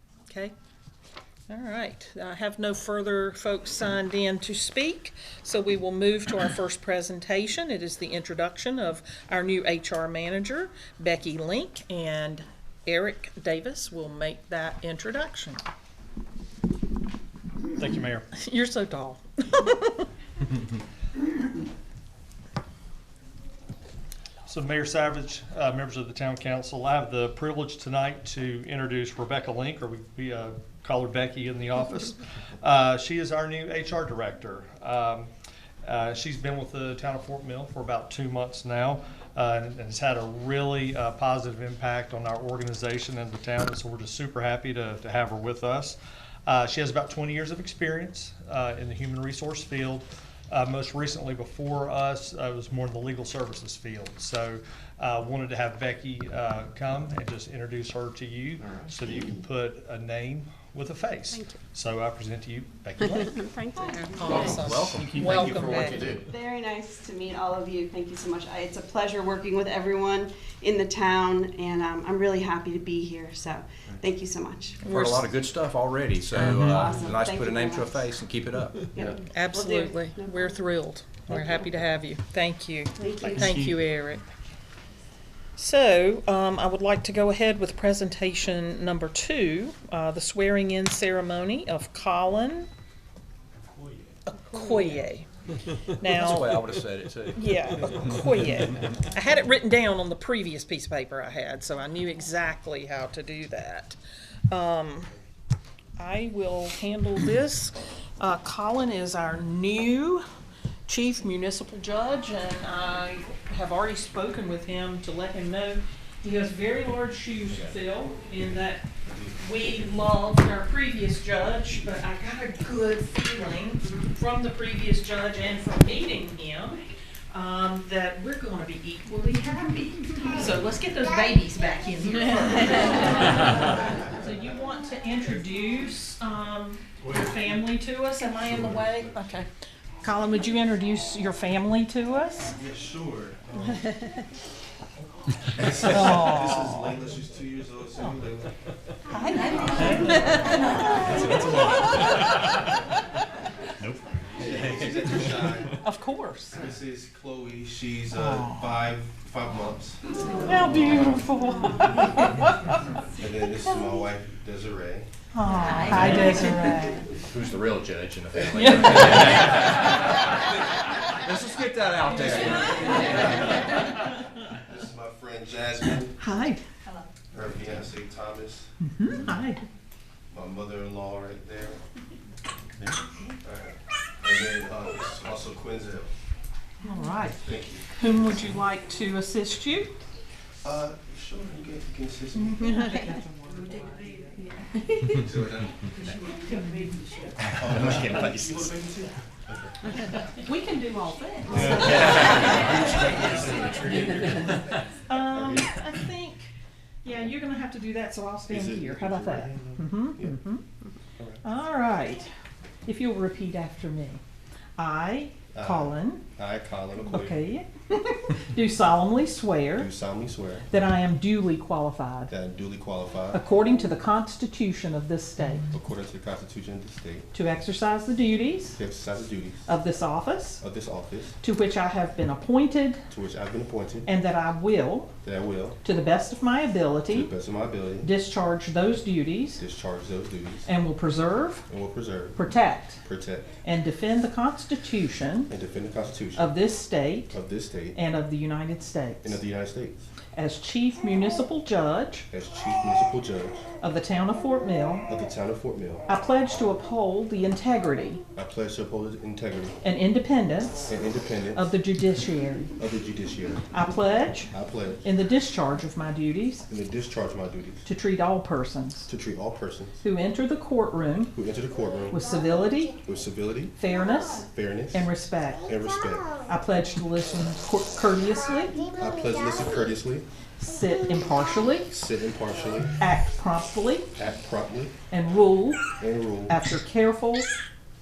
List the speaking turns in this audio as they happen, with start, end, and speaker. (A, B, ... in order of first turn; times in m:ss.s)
0:00.3-0:00.5 A
0:01.5-0:15.6 A
0:17.8-0:18.4 B
0:18.3-0:20.0 A
0:24.5-0:35.3 B
0:35.8-1:03.6 B
1:03.4-1:04.6 C
1:04.0-1:06.0 A
1:04.3-1:06.2 D
1:06.3-1:14.8 C
1:14.8-1:15.2 A
1:14.9-1:19.0 D
1:16.3-1:16.7 A
1:16.4-1:18.1 C
1:18.9-1:20.5 C
1:19.2-1:24.2 A
1:23.0-1:23.4 C
1:23.4-1:23.7 D
1:25.6-1:32.7 A
1:34.2-1:35.3 A
1:35.9-1:36.6 A
1:36.1-1:38.0 D
1:37.3-1:44.0 A
1:44.5-1:45.1 A
1:46.0-1:50.2 A
1:50.8-1:58.8 A
1:59.4-2:19.5 A
2:18.4-2:19.1 E
2:20.0-2:22.6 A
2:22.5-2:24.0 E
2:25.6-2:28.5 E
2:25.8-2:27.0 A
2:29.1-2:31.4 A
2:29.7-2:30.6 E
2:31.1-2:32.2 D
2:31.2-2:31.7 E
2:33.8-2:35.4 D
2:34.4-2:35.7 E
2:35.8-2:36.6 A
2:36.5-2:40.0 E
2:38.1-2:38.7 A
2:40.4-2:42.8 A
2:43.2-2:45.1 E
2:45.3-2:47.0 A
2:45.9-2:46.3 E
2:47.3-2:49.7 D
2:48.5-2:49.5 A
2:51.2-2:53.4 D
2:52.5-2:53.9 E
2:54.6-2:56.2 E
2:56.2-2:56.6 A
2:57.3-2:58.7 E
2:58.8-2:59.6 A
3:00.3-3:01.8 E
3:03.4-3:06.1 E
3:06.8-3:07.4 A
3:07.4-3:08.0 E
3:07.9-3:09.9 A
3:10.6-3:12.8 E
3:12.3-3:14.3 A
3:15.1-3:16.1 E
3:16.5-3:17.1 A
3:17.5-3:19.7 E
3:20.4-3:23.2 A
3:21.5-3:25.6 E
3:22.0-3:23.2 D
3:25.0-3:26.5 A
3:27.0-3:30.6 A
3:28.5-3:30.4 E
3:31.2-3:31.4 E
3:31.4-3:32.3 A
3:32.8-3:34.2 A
3:34.8-3:36.2 A
3:35.5-3:37.4 E
3:37.1-3:39.9 A
3:39.8-3:40.7 E
3:40.7-3:42.3 A
3:42.3-3:43.4 E
3:43.3-3:45.7 A
3:45.7-3:47.3 E
3:47.3-3:48.8 A
3:48.8-3:49.6 E
3:49.7-3:50.6 A
3:50.6-3:51.4 E
3:51.4-3:53.0 A
3:53.1-3:54.1 E
3:54.0-3:55.1 A
3:55.2-3:55.8 E
3:55.8-3:57.3 A
3:57.1-3:58.1 E
3:58.0-3:59.6 A
3:59.6-4:00.7 E
4:00.6-4:01.6 A
4:01.7-4:02.4 E
4:02.4-4:03.0 A
4:03.0-4:03.5 E
4:03.6-4:05.5 A
4:05.5-4:06.5 E
4:06.4-4:07.3 A
4:07.3-4:08.0 E
4:07.9-4:09.4 A
4:09.2-4:10.1 E
4:10.3-4:12.3 A
4:12.3-4:13.6 E
4:13.8-4:15.0 A
4:15.1-4:16.1 E
4:16.1-4:18.2 A
4:18.3-4:19.8 E
4:19.8-4:20.9 A
4:20.9-4:21.7 E
4:21.5-4:22.7 A
4:22.8-4:23.6 E
4:23.7-4:24.5 A
4:24.5-4:25.0 E
4:25.0-4:26.7 A
4:26.7-4:27.8 E
4:27.8-4:29.1 A
4:29.1-4:30.0 E
4:30.0-4:31.3 A
4:31.3-4:32.2 E
4:32.1-4:33.0 A
4:33.0-4:33.8 E
4:33.8-4:35.7 A
4:34.4-4:35.1 E
4:35.6-4:36.4 E
4:36.4-4:38.8 A
4:39.0-4:40.3 E
4:40.6-4:41.9 A
4:41.9-4:43.0 E
4:43.0-4:44.1 A
4:44.2-4:44.9 E
4:45.1-4:45.9 A
4:46.0-4:46.6 E
4:46.5-4:47.5 A